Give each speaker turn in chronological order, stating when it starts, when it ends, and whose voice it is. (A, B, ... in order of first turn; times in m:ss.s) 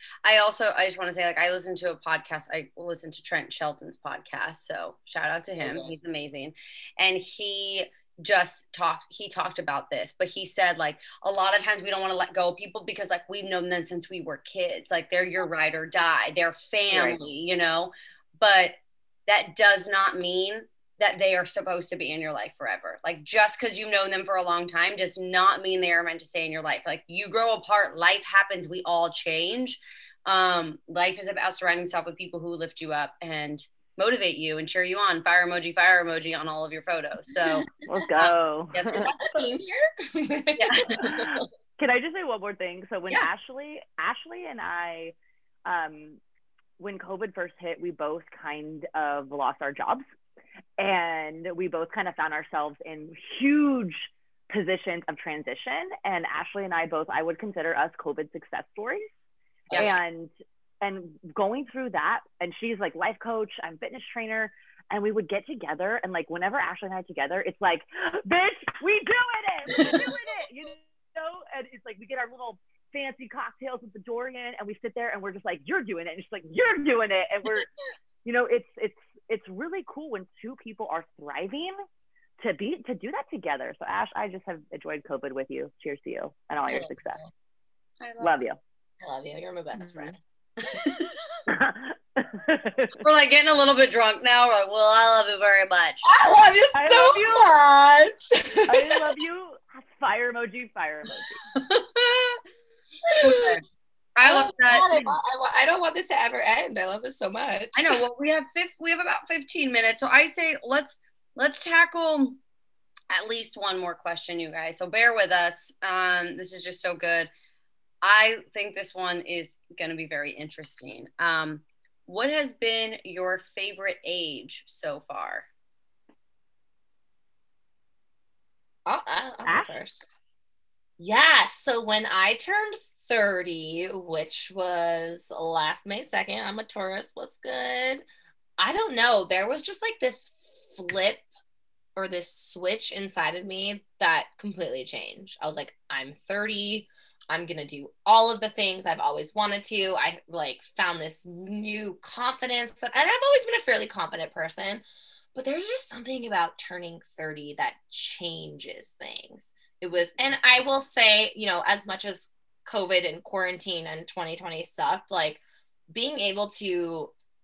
0:00.2-0:18.8 A
0:05.6-0:05.9 B
0:16.9-0:17.2 C
0:19.3-0:39.2 A
0:37.8-0:39.1 C
0:39.0-0:41.0 B
0:40.6-0:41.2 A
0:41.0-0:45.1 C
0:45.6-0:46.2 C
0:46.8-0:50.0 C
0:50.8-0:59.1 C
0:59.7-1:17.7 C
1:18.2-1:21.8 C
1:22.4-1:27.2 C
1:26.7-1:27.3 B
1:28.0-1:28.4 A
1:28.2-1:28.6 C
1:29.0-1:30.2 B
1:29.8-1:30.1 C
1:30.6-1:31.1 A
1:31.5-1:33.0 C
1:33.0-1:36.0 A
1:36.0-1:39.2 B
1:36.7-1:37.5 C
1:38.7-1:41.3 C
1:41.5-1:42.4 A
1:43.1-1:43.6 B
1:43.2-1:43.6 A
1:44.2-1:45.1 A
1:44.2-1:48.0 B
1:47.7-1:52.4 A
1:53.1-1:57.3 A
1:58.0-2:05.5 A
2:08.8-2:10.0 B
2:09.4-2:09.7 C
2:11.0-2:18.0 B
2:18.6-2:21.2 B
2:22.0-2:34.8 B
2:35.3-2:47.1 B